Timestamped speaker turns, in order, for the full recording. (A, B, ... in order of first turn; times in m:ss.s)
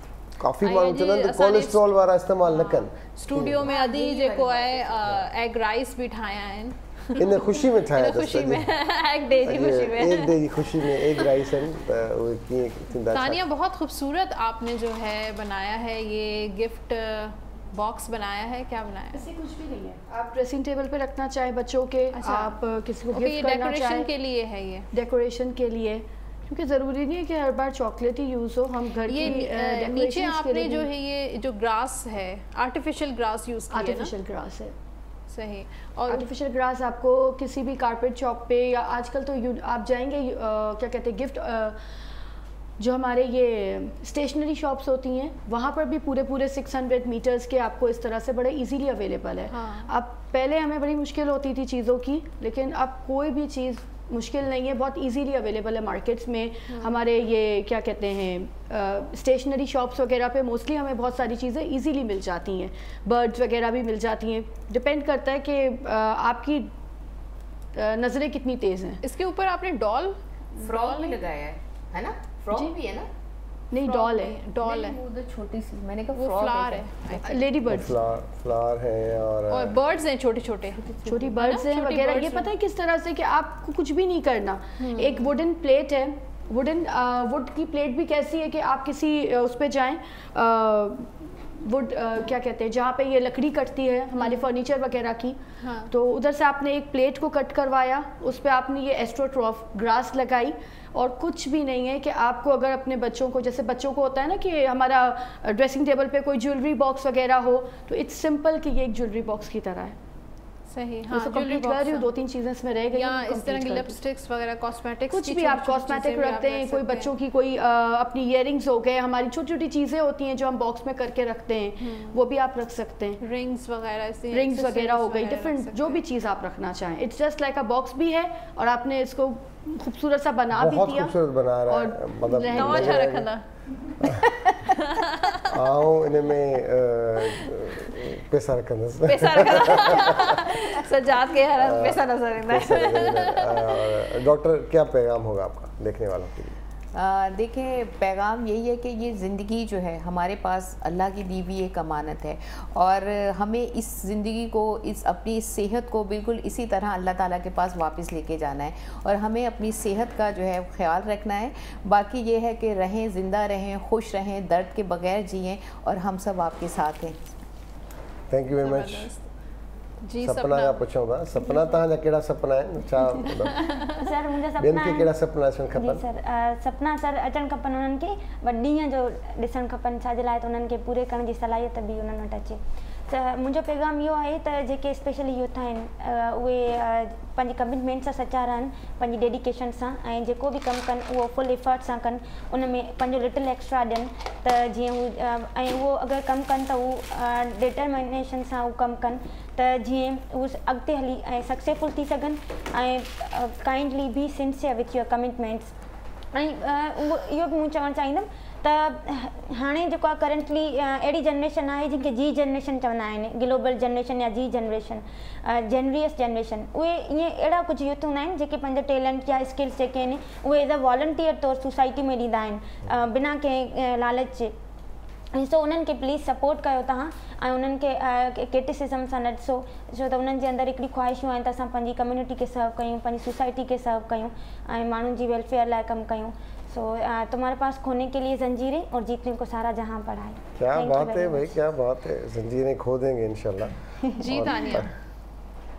0:00.4-0:03.7 A
0:00.6-0:01.9 B
0:02.4-0:11.4 B
0:03.7-0:04.9 C
0:07.2-0:08.7 A
0:09.4-0:13.4 A
0:13.1-0:19.3 B
0:19.1-0:24.1 D
0:22.1-0:22.6 B
0:23.1-0:24.9 B
0:24.9-0:30.9 D
0:29.1-0:34.1 B
0:33.7-0:34.7 D
0:35.3-0:36.3 B
0:36.1-0:41.8 D
0:42.8-1:06.7 D
0:49.5-0:49.9 B
0:56.7-0:57.0 B
1:07.7-1:09.0 D
1:09.0-1:11.3 B
1:10.6-1:13.1 C
1:13.7-1:14.4 D
1:13.8-1:15.0 B
1:14.6-1:17.2 C
1:16.2-1:17.6 B
1:17.2-1:17.9 D
1:17.7-1:19.8 A
1:19.5-1:22.5 B
1:21.1-1:50.0 D
1:24.8-1:25.3 B
1:34.2-1:34.6 B
1:35.6-1:35.9 B
1:50.7-1:52.1 B
1:51.1-1:54.0 D
1:52.9-1:57.1 B
1:55.1-2:03.2 D
2:01.8-2:02.2 B
2:03.2-2:06.0 B
2:04.3-2:13.1 D
2:10.6-2:13.3 A
2:12.5-2:13.4 B
2:14.7-2:15.5 B
2:15.5-2:20.4 A
2:17.2-2:17.6 B
2:19.0-2:24.1 B
2:21.6-2:26.6 A
2:26.9-2:47.2 C
2:48.3-2:49.1 A
2:48.6-2:49.3 B
2:50.0-2:50.8 B
2:50.2-2:53.5 A
2:51.4-2:51.8 B
2:53.3-2:54.0 B
2:53.9-2:55.1 E
2:54.6-2:56.0 A
2:55.7-3:25.7 E
3:26.3-3:44.6 E
3:45.3-4:01.6 E
4:00.6-4:04.9 A
4:04.2-4:04.9 B